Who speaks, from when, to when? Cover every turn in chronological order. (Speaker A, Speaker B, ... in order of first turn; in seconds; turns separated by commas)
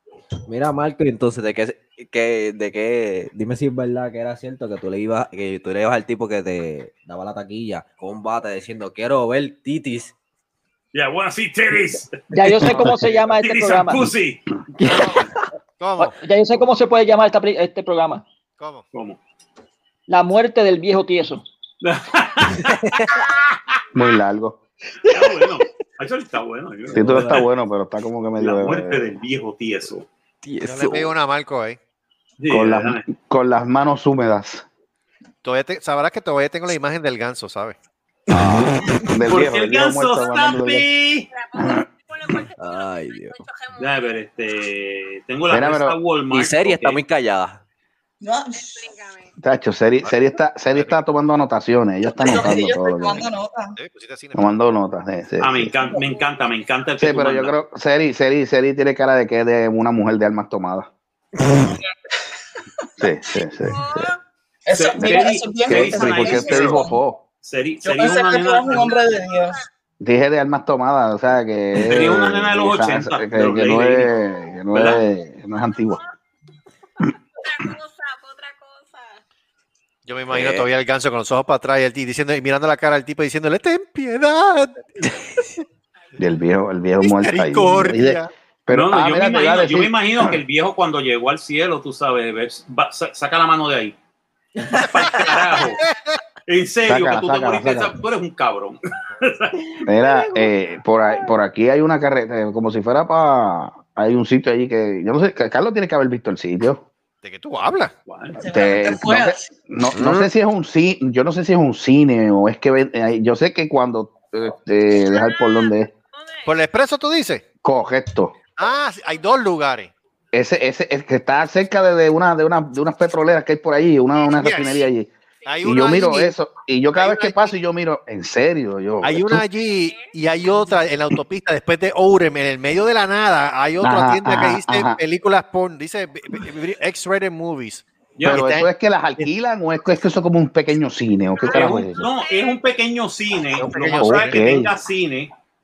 Speaker A: 0.5-10.1, Speaker B: 10.9-14.5, Speaker C: 12.3-14.1, Speaker D: 14.9-15.2, Speaker D: 15.8-16.2, Speaker C: 16.0-18.2, Speaker D: 18.6-18.8, Speaker B: 18.9-19.2, Speaker C: 20.1-21.4, Speaker B: 21.8-23.6, Speaker A: 22.7-23.2, Speaker E: 23.9-24.6, Speaker B: 25.1-27.5, Speaker A: 26.9-27.4, Speaker E: 26.9-29.1, Speaker B: 28.4-30.1, Speaker A: 30.4-31.1, Speaker D: 30.6-31.8, Speaker B: 32.4-33.0, Speaker E: 32.5-34.6, Speaker D: 35.4-37.8, Speaker E: 38.3-40.9, Speaker B: 39.3-41.3, Speaker F: 40.1-40.7, Speaker F: 41.3-44.2, Speaker A: 42.6-43.5, Speaker B: 43.8-47.0, Speaker E: 45.5-46.0, Speaker A: 46.3-47.6, Speaker G: 48.2-48.9, Speaker F: 48.5-49.4, Speaker E: 49.4-53.3, Speaker G: 52.1-53.8, Speaker D: 53.8-54.5, Speaker E: 54.4-55.8, Speaker B: 55.4-57.5, Speaker F: 55.9-56.7, Speaker E: 57.0-60.9, Speaker G: 61.6-61.9, Speaker E: 63.0-64.1, Speaker F: 63.6-64.2, Speaker G: 64.7-67.0, Speaker B: 64.8-66.9, Speaker E: 65.0-67.2, Speaker B: 67.4-68.9, Speaker G: 67.8-69.6, Speaker F: 68.7-69.6, Speaker E: 70.0-76.0, Speaker B: 71.8-74.1, Speaker B: 74.7-75.0, Speaker F: 75.6-76.1, Speaker F: 77.0-79.2, Speaker D: 80.1-85.6, Speaker A: 80.3-80.7, Speaker E: 86.2-90.4, Speaker D: 87.0-88.3, Speaker B: 88.7-94.0, Speaker B: 94.7-95.8, Speaker D: 95.8-96.2, Speaker B: 96.5-99.7, Speaker E: 96.9-98.0, Speaker E: 99.9-106.8, Speaker D: 107.2-107.9, Speaker B: 108.1-108.4, Speaker G: 108.4-109.5, Speaker E: 108.5-115.9, Speaker D: 110.0-110.3, Speaker F: 114.9-116.6, Speaker D: 116.5-117.4, Speaker E: 117.6-118.3, Speaker D: 118.6-119.9, Speaker F: 118.6-119.2, Speaker E: 120.3-125.1, Speaker F: 124.2-124.9, Speaker D: 124.4-124.8, Speaker F: 125.4-126.1, Speaker D: 125.5-126.3, Speaker E: 125.6-129.4, Speaker D: 127.0-127.5, Speaker D: 129.0-139.3, Speaker F: 129.6-130.7, Speaker E: 133.8-135.0, Speaker B: 138.2-138.5, Speaker E: 138.3-142.1, Speaker F: 141.4-142.6, Speaker B: 141.5-145.3, Speaker D: 143.6-144.6, Speaker E: 144.0-144.7